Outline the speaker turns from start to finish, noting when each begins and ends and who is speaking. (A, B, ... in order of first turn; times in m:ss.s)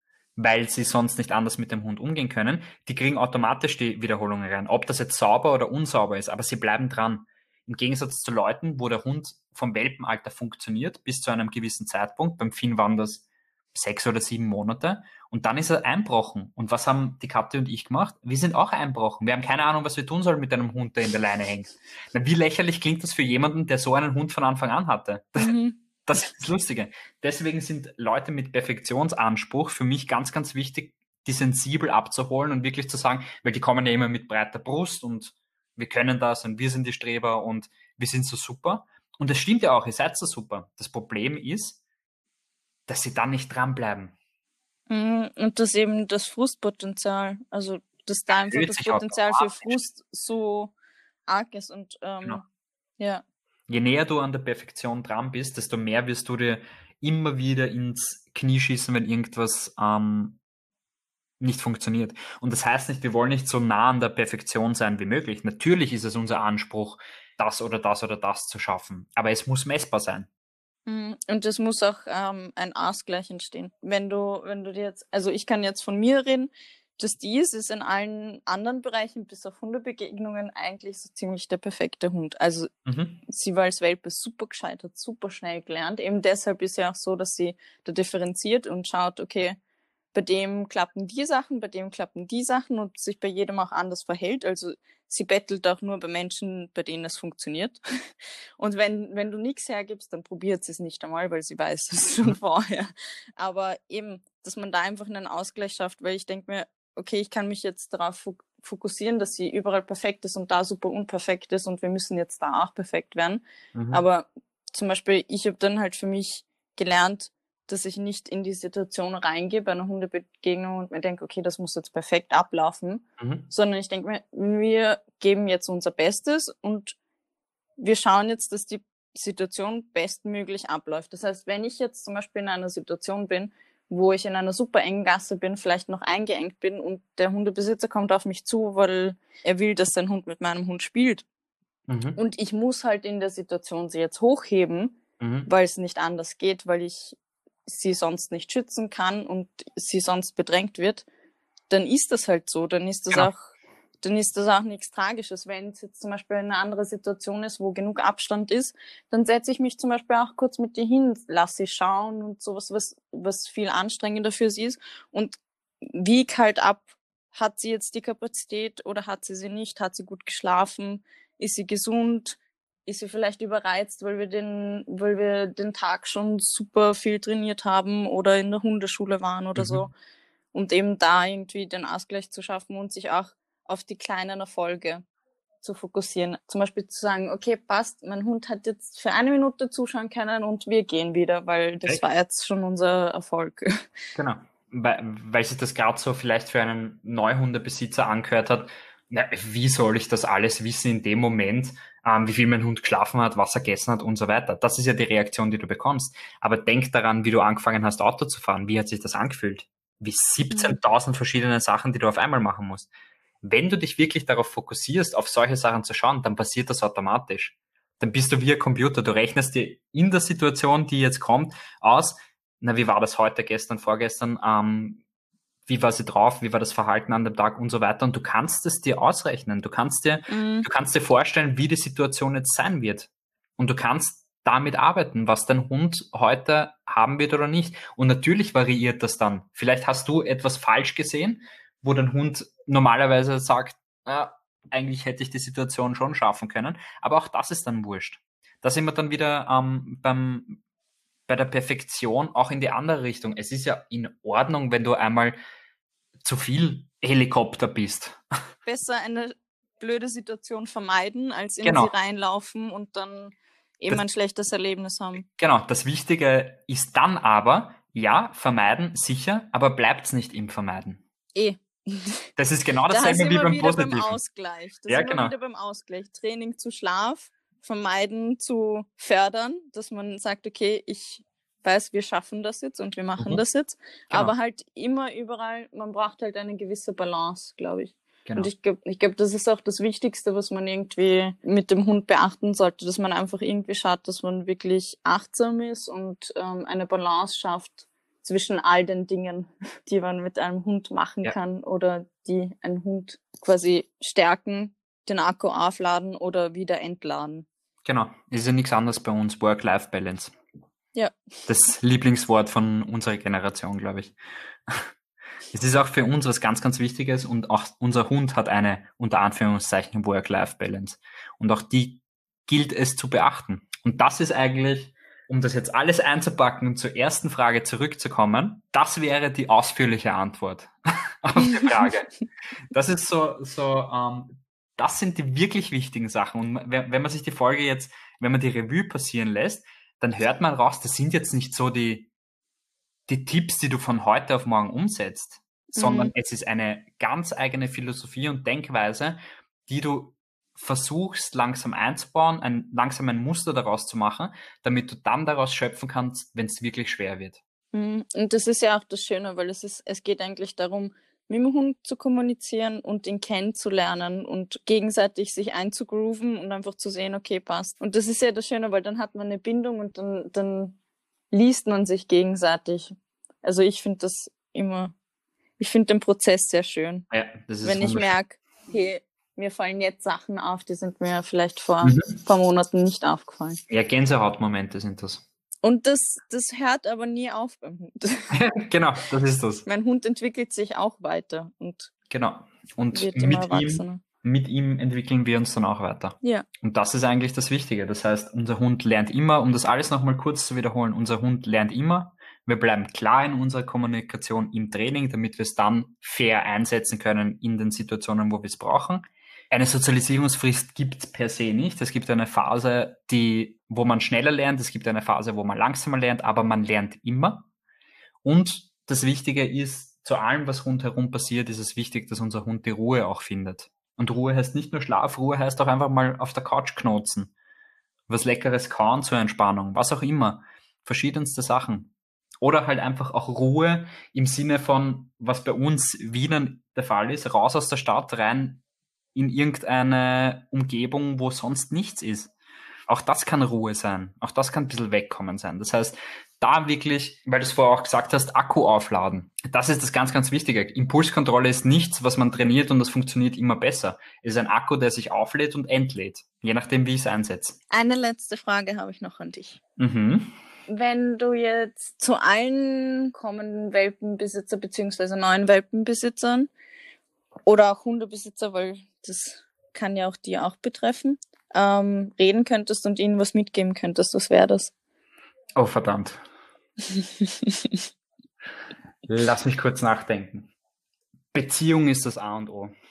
0:00.4-0:25.5 A
0:25.4-0:25.8 B
0:26.1-0:41.8 A
0:42.9-0:44.1 A
0:44.9-0:50.7 B
0:48.3-0:49.8 A
0:51.3-0:52.4 B
0:53.0-0:53.2 B
0:53.7-1:00.4 A
1:01.4-1:10.3 A
1:10.9-1:22.7 B
1:22.9-1:23.2 A
1:23.2-1:29.6 B
1:30.1-1:37.8 B
1:38.6-2:07.0 B
1:53.7-1:54.0 A
2:03.2-2:03.5 A
2:07.8-2:21.2 B
2:21.9-2:22.2 A
2:22.2-2:31.0 B
2:25.2-2:25.5 A
2:31.7-2:59.9 B
2:59.6-2:59.9 A
3:00.5-3:05.0 B
3:05.6-3:13.8 B
3:14.1-3:32.9 A
3:30.5-3:30.8 B
3:33.4-3:45.0 A
3:45.7-4:10.6 A
3:50.3-3:50.7 B
4:11.3-4:15.4 A
4:16.2-4:18.2 A
4:18.6-4:25.2 B
4:21.6-4:21.9 A
4:25.2-4:31.0 A
4:31.3-4:32.3 B
4:32.4-4:34.2 A
4:32.9-5:07.4 B
4:34.9-4:35.3 A
4:48.2-4:48.5 A
5:07.8-5:10.3 A
5:11.5-5:14.1 A
5:15.5-5:32.1 A
5:32.7-5:42.1 A
5:43.1-5:57.4 A
5:45.7-5:46.1 B
5:57.7-6:10.8 B
6:11.3-6:14.9 B
6:15.6-6:17.1 B
6:17.1-6:18.1 A
6:17.6-6:23.6 B
6:21.8-6:22.1 A
6:23.7-6:25.2 A
6:25.6-6:28.4 B
6:28.3-6:29.6 A
6:29.6-6:31.9 B
6:32.1-6:57.5 A
6:32.9-6:34.0 B
6:36.2-6:36.5 B
6:58.2-7:07.3 A
7:08.1-7:18.6 A
7:19.1-7:22.3 A
7:22.9-7:37.6 A
7:37.7-7:39.6 B
7:39.8-7:40.3 A
7:40.7-7:46.5 B
7:47.4-7:54.7 B
7:55.6-7:56.2 A
7:56.9-7:57.8 B
7:59.0-8:00.5 A
8:01.3-8:02.7 A